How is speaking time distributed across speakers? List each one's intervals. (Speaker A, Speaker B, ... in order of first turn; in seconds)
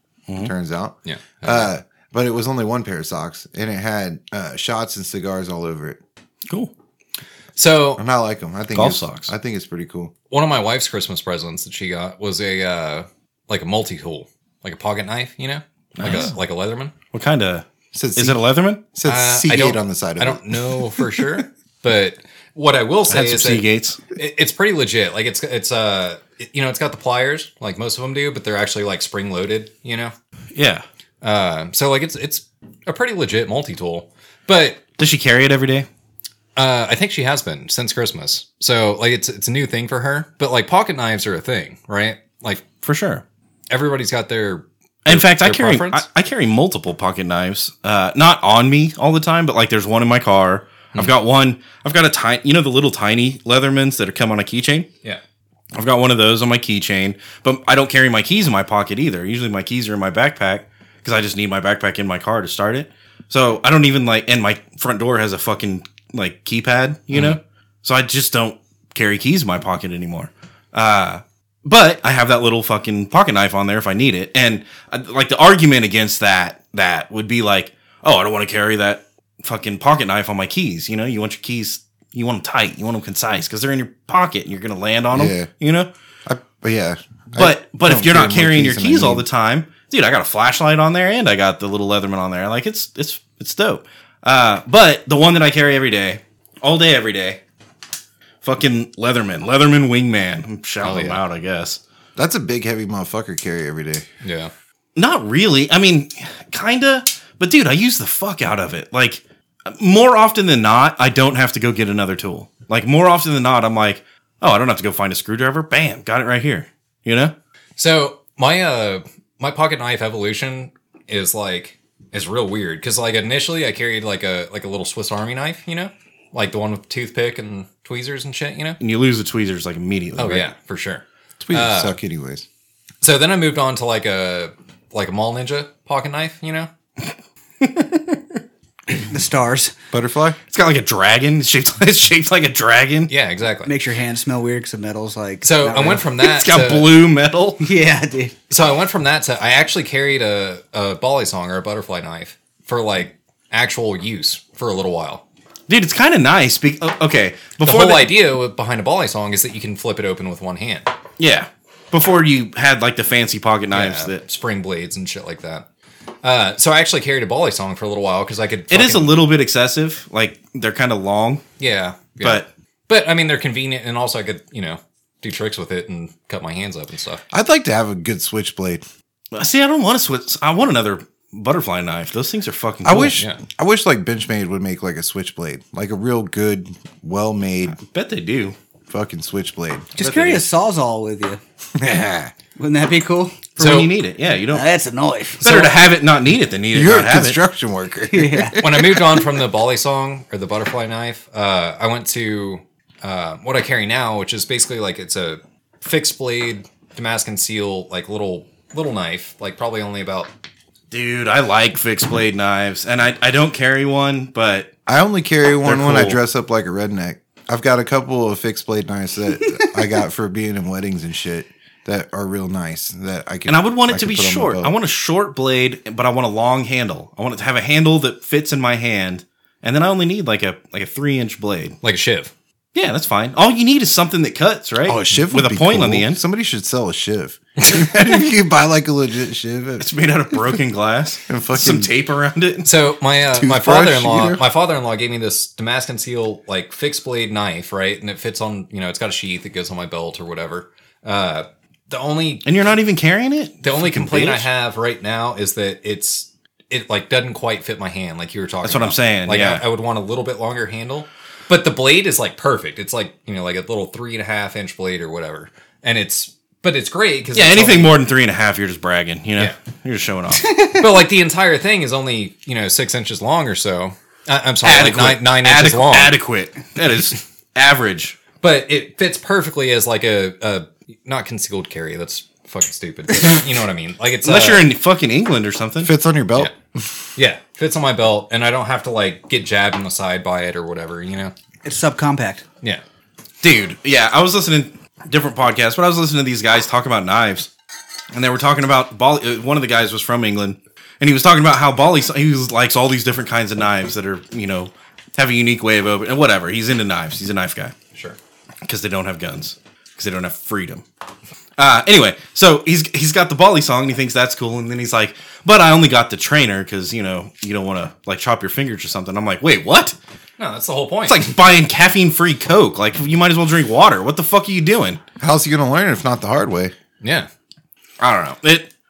Speaker A: 0.4-6.0, 8.0-10.1, 17.9-21.3, 85.1-85.5, 86.2-89.3, 102.2-104.0, 131.4-132.4, 139.9-140.4, 177.3-178.8, 182.8-187.8, 188.9-190.4, 191.8-192.3, 196.7-199.2, 214.9-224.7, 234.9-239.9, 241.3-241.9, 243.3-244.4, 285.8-286.9, 325.2-326.7
Speaker B: 1.1-1.7, 7.5-8.0, 10.3-16.9, 19.0-30.1, 31.2-34.8, 36.5-42.6, 43.7-46.0, 67.1-67.4, 100.8-101.2, 104.2-104.5, 117.8-128.8, 130.2-132.0, 133.0-136.7, 143.1-143.7, 145.4-147.0, 148.5-155.2, 157.6-160.9, 163.7-165.7, 166.2-169.1, 171.6-177.2, 183.1-183.4, 193.6-193.9, 198.6-210.3, 231.8-232.3, 242.6-252.5, 253.6-267.9, 270.5-276.1, 278.4-284.6, 287.1-291.3, 320.4-321.3, 327.0-327.3
Speaker C: 8.7-9.3, 15.9-16.4, 17.1-18.8, 23.1-24.0, 30.5-30.8, 35.0-35.9, 42.8-43.2, 45.0-54.9, 55.7-85.9, 87.4-97.4, 98.4-101.8, 105.0-117.3, 128.8-130.4, 137.6-138.4, 140.5-143.1, 146.2-147.7, 155.7-158.1, 161.2-164.2, 168.7-171.4, 172.2-172.5, 179.3-183.2, 187.8-188.6, 193.6-194.7, 195.4-197.4, 210.9-214.7, 215.6-216.2, 223.5-231.8, 232.7-236.2, 239.8-242.7, 252.4-254.4, 258.6-259.6, 267.3-270.8, 274.6-278.2, 284.2-285.9, 293.4-297.5, 298.1-307.7, 308.6-310.8, 311.6-319.9, 321.1-325.0, 328.0-328.7
Speaker D: 139.1-139.7, 143.6-146.0, 147.6-148.3, 189.9-191.4, 192.6-193.8, 194.5-195.8, 198.1-198.6, 291.6-292.4